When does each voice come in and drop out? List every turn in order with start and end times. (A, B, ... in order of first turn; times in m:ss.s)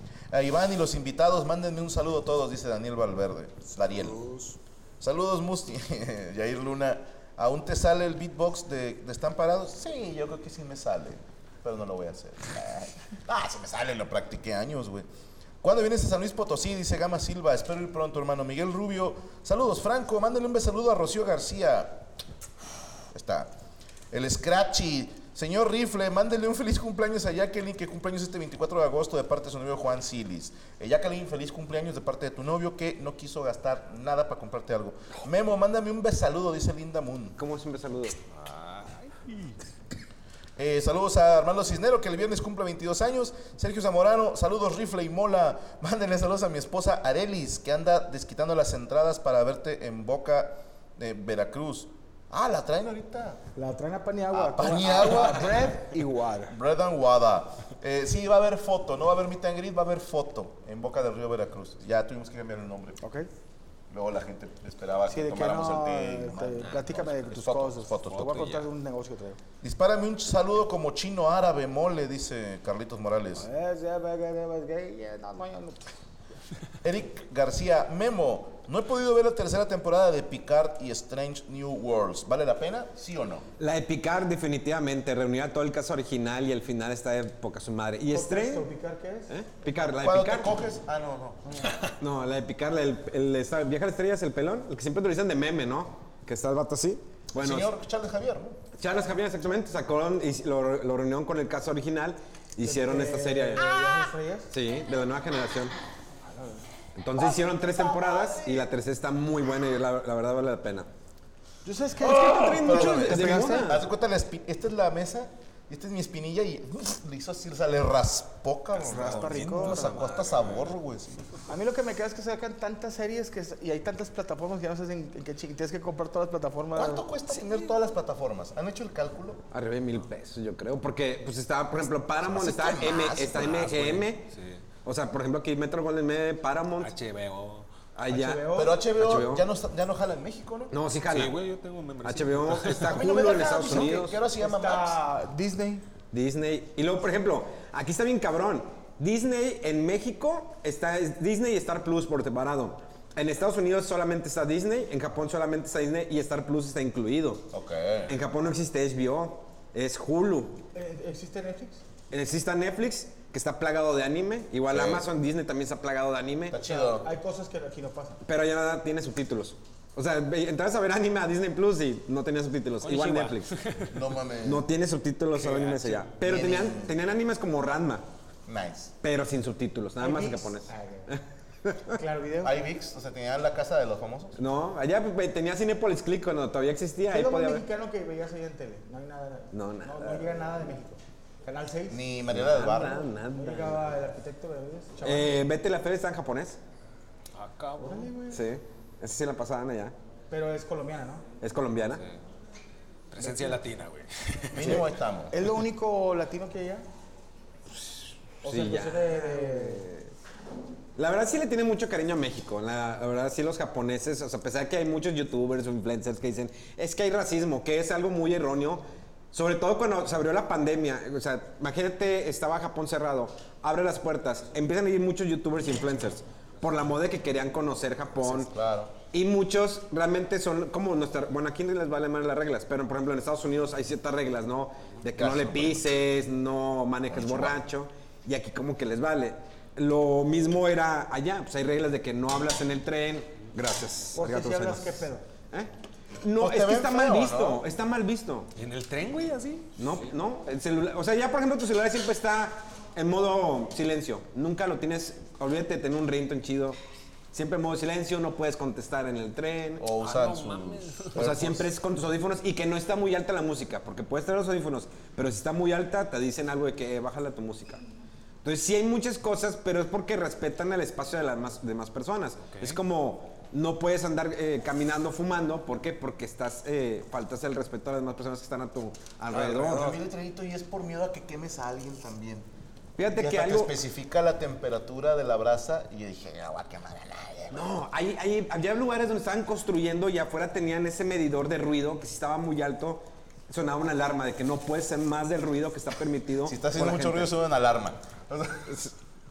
0:00.3-0:04.3 A
0:05.0-0:15.0 A
0:15.6-0:22.1 A
0:23.1-0:23.5 A
0:24.1-0:37.4 A
0:37.4-0:38.2 B
0:38.3-0:39.6 C
0:40.6-0:53.4 A
0:53.6-0:56.5 D
0:54.3-1:03.0 A
1:03.0-1:03.3 D
1:03.9-1:08.5 A
1:05.1-1:09.4 D
1:06.6-1:07.0 C
1:08.1-1:08.7 C
1:09.6-1:13.5 A
1:13.4-1:15.9 D
1:16.8-1:23.4 A
1:23.6-1:28.7 B
1:28.1-1:29.3 D
1:29.3-1:30.6 B
1:29.9-1:31.6 A
1:32.0-1:37.7 B
1:37.4-1:38.6 A
1:38.7-1:43.8 B
1:42.6-1:44.5 D
1:44.5-1:45.7 B
1:46.3-1:46.6 D
1:47.0-1:50.9 B
1:47.2-1:48.7 A
1:51.6-1:53.8 D
1:52.0-1:53.8 B
1:52.0-2:01.2 A
1:58.8-1:59.9 D
1:58.9-2:00.7 C
2:01.5-2:07.1 D
2:06.7-2:09.4 A
2:09.5-2:14.3 B
2:12.2-2:13.8 A
2:13.4-2:14.6 C
2:14.8-2:16.9 B
2:16.8-2:17.7 C
2:18.0-2:19.5 B
2:18.1-2:18.8 D
2:18.5-2:20.7 A
2:20.7-2:21.4 B
2:21.1-2:23.0 C
2:22.0-2:24.2 B
2:22.9-2:25.0 A
2:24.4-2:25.8 D
2:26.1-2:37.5 B
2:37.5-2:38.2 A
2:38.1-2:40.6 B
2:40.7-2:41.8 D
2:42.1-2:46.6 B
2:44.7-2:45.1 A
2:46.5-2:47.1 A
2:46.6-2:48.2 D
2:48.2-2:53.5 B
2:52.8-2:54.0 C
2:53.9-2:54.6 A
2:54.4-2:58.0 B
2:55.4-2:56.0 C
2:56.1-2:56.9 A
2:58.4-2:58.9 A
2:59.0-3:02.0 B
3:00.0-3:01.2 D
3:01.9-3:02.6 D
3:02.4-3:04.4 A
3:04.4-3:07.6 B
3:07.1-3:12.0 D
3:09.5-3:10.3 B
3:11.9-3:13.1 A
3:12.3-3:13.8 B
3:13.3-3:15.4 D
3:15.0-3:16.6 B
3:17.3-3:18.1 C
3:17.8-3:18.4 D
3:18.3-3:19.9 B
3:20.3-3:21.2 D
3:21.4-3:22.0 B
3:23.1-3:24.8 C
3:23.2-3:23.6 D
3:24.5-3:25.3 A
3:25.3-3:26.8 D
3:28.4-3:29.8 D
3:28.4-3:30.1 B
3:31.0-3:48.5 B
3:48.2-3:48.9 A
3:49.1-4:08.5 B
3:55.2-3:55.8 A
3:57.1-3:57.6 A
4:04.1-4:05.2 D
4:06.4-4:07.6 A
4:08.6-4:10.0 C
4:09.8-4:16.8 B
4:17.3-4:19.8 B
4:19.8-4:21.7 A
4:20.0-4:21.2 C
4:21.1-4:27.8 B
4:28.4-4:40.0 B
4:32.5-4:32.8 C
4:39.3-4:42.4 A
4:43.0-4:43.7 B
4:43.1-4:47.7 A
4:47.5-4:57.3 B
4:56.4-4:58.8 A